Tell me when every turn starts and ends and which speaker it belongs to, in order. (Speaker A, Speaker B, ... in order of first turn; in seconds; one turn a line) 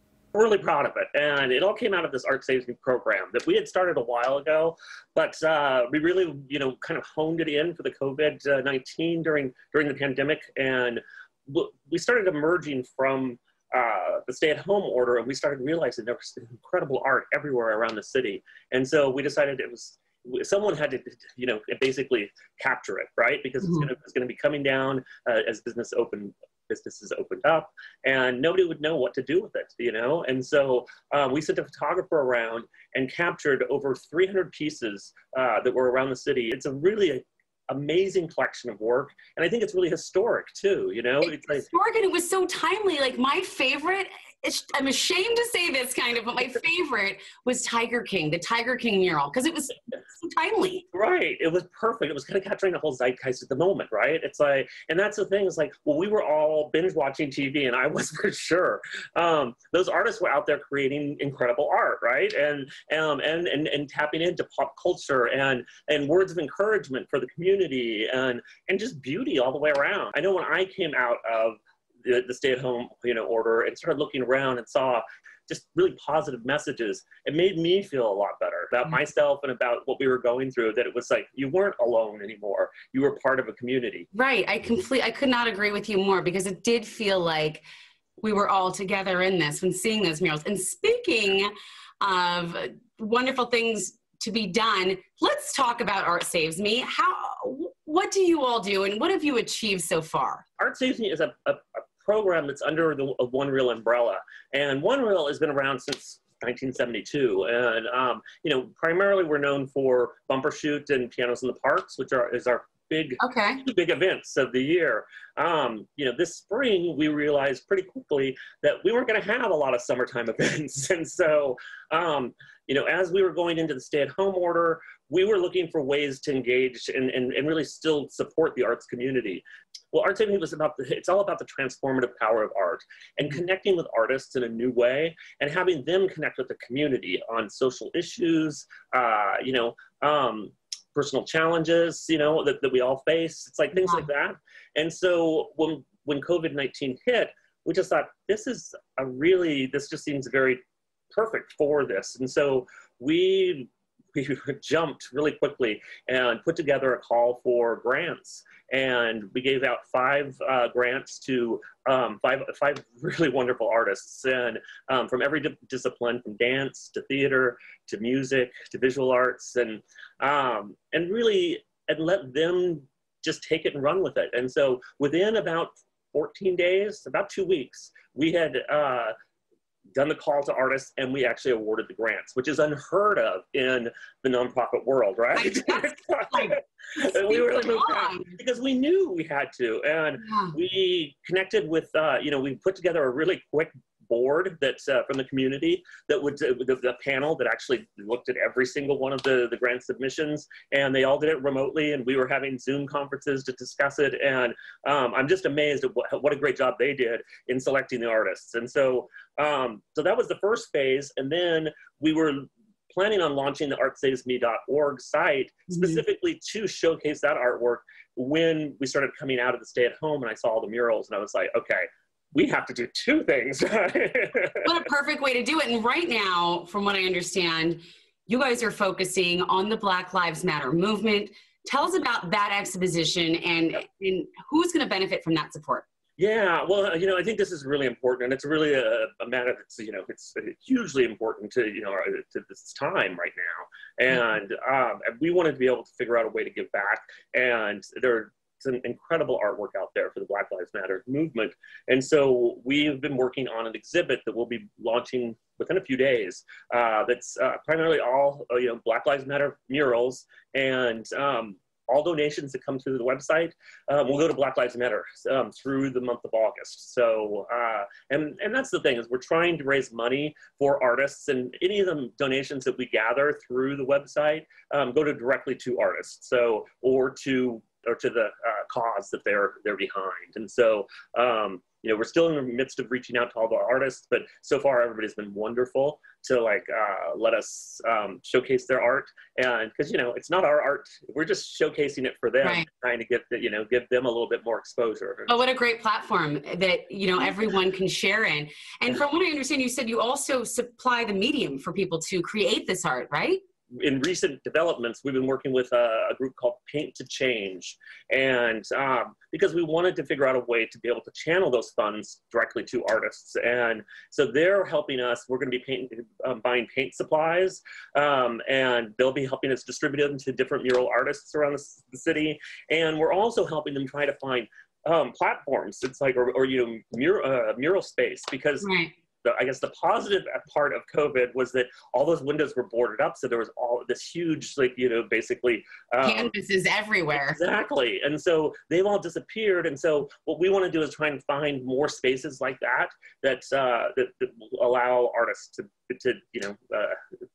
Speaker A: 0.3-41.7
Speaker B: 23.6-23.9
Speaker B: 41.2-50.9
Speaker A: 50.9-84.1
Speaker B: 84.1-87.6
Speaker B: 88.2-100.4
Speaker A: 100.6-150.6
Speaker B: 113.2-113.6
Speaker B: 143.7-144.1
Speaker A: 151.1-179.1
Speaker A: 179.9-224.7
Speaker B: 185.3-188.3
Speaker B: 190.2-190.5
Speaker B: 215.7-216.0
Speaker B: 224.6-235.8
Speaker A: 236.2-295.4
Speaker B: 295.3-303.4
Speaker A: 303.7-328.7
Speaker B: 328.6-328.9
Speaker A: 329.2-336.3
Speaker B: 336.0-337.4
Speaker A: 337.1-347.0